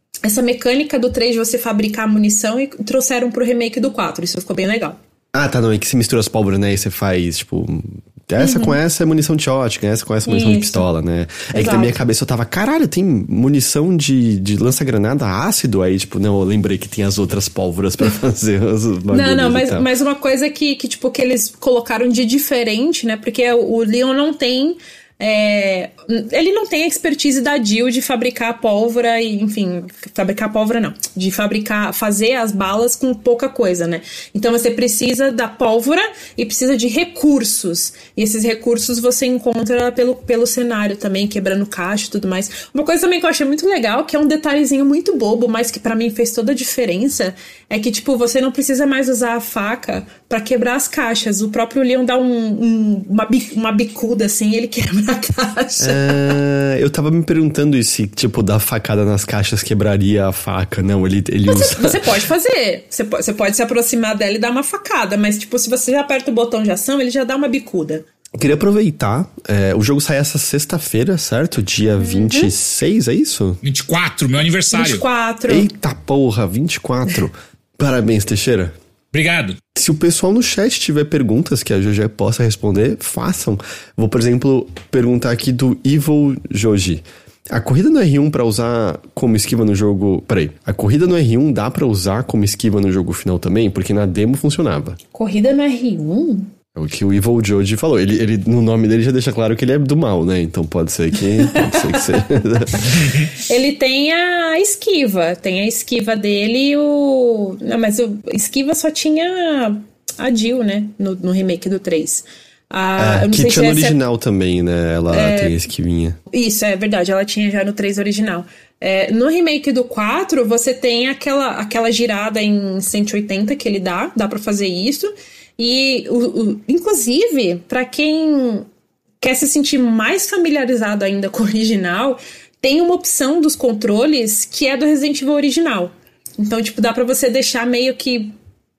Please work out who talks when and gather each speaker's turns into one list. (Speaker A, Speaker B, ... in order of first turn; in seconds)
Speaker A: 0.2-5.0, 8.4-8.8, 10.3-10.9, 11.5-12.0, 19.1-56.4, 61.5-68.0, 72.0-72.5, 74.7-75.7, 95.1-96.5, 101.4-114.0, 115.1-115.6, 116.3-128.7, 129.2-138.3
Speaker B: 5.3-19.9, 55.8-62.1, 68.4-73.6, 75.5-78.7, 79.8-95.0, 96.7-103.0, 113.0-116.2
Speaker C: 73.6-75.0, 79.1-79.6